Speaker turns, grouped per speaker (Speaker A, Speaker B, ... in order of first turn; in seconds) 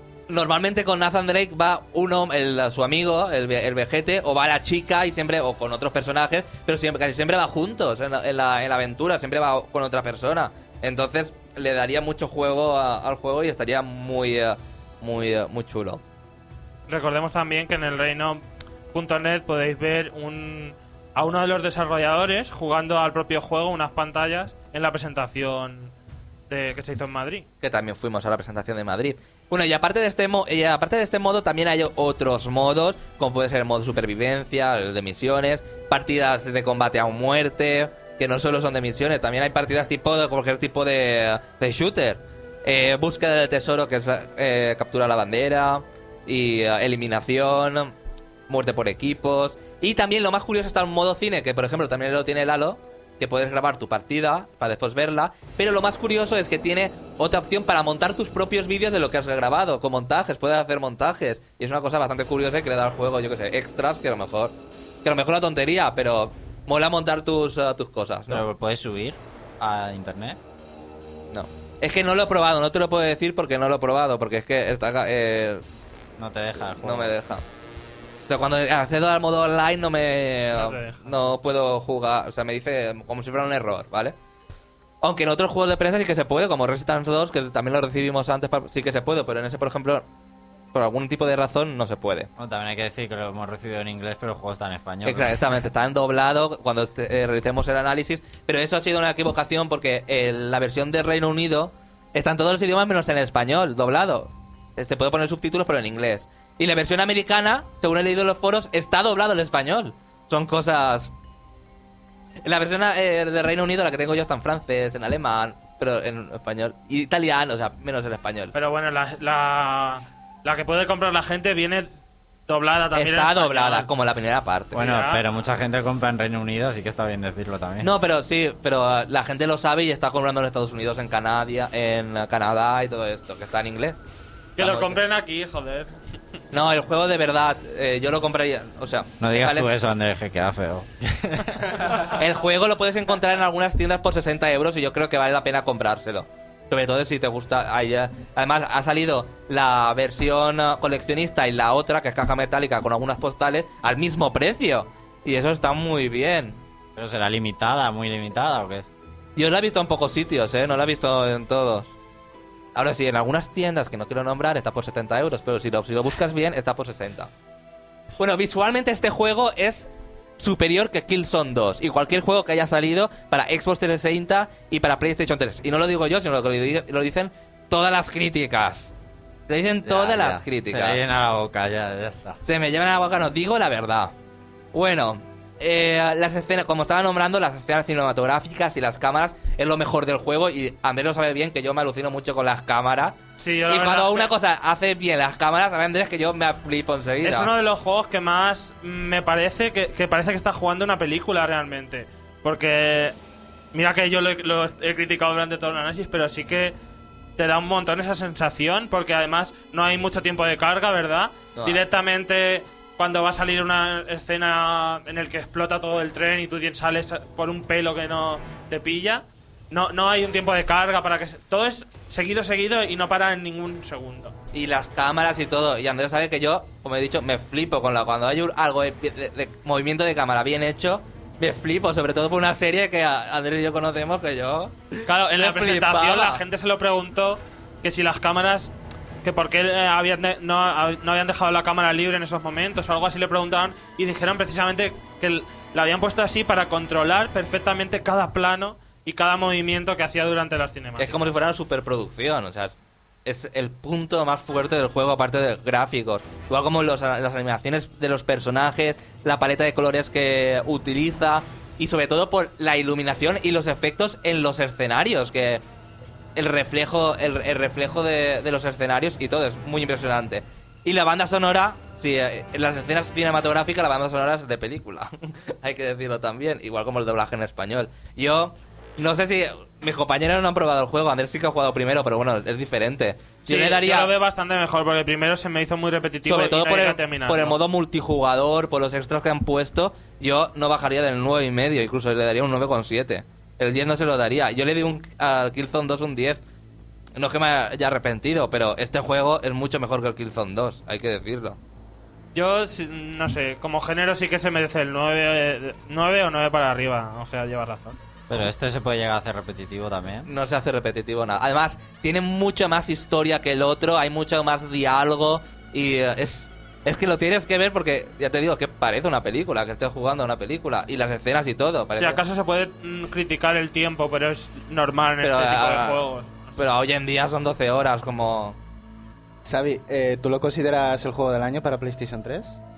Speaker A: 0.3-16.0, 27.6-47.9, 48.5-68.5, 71.3-75.6, 76.8-77.4, 78.3-84.1, 85.0-90.0, 90.7-92.3, 95.0-111.1, 112.4-118.5, 122.9-124.8, 127.8-134.0, 134.6-135.0, 136.5-139.7, 142.1-156.6, 159.3-161.9, 162.7-167.3, 168.2-169.8, 170.4-178.9, 179.5-181.0, 182.4-184.1, 184.7-193.2, 193.7-197.5, 211.5-211.8, 224.5-234.8, 235.3-236.4, 251.0-265.6, 266.4-284.1, 286.2-296.4, 297.2-301.6, 310.2-322.2, 325.2-326.0, 326.6-328.6
Speaker B: 16.9-18.4, 18.9-25.9, 26.5-27.4, 80.5-81.1, 118.5-121.9, 122.5-123.9, 124.7-125.3, 134.6-135.9, 193.4-194.3, 197.2-203.1, 203.7-206.7, 207.4-224.3, 235.1-238.7, 239.2-251.3, 283.4-287.6, 302.3-308.0, 322.0-326.6
Speaker C: 68.3-70.4, 76.2-77.1, 92.4-95.4, 124.7-127.9, 139.2-141.8, 156.9-158.8, 179.8-182.4, 308.3-310.3
Speaker D: 329.4-332.6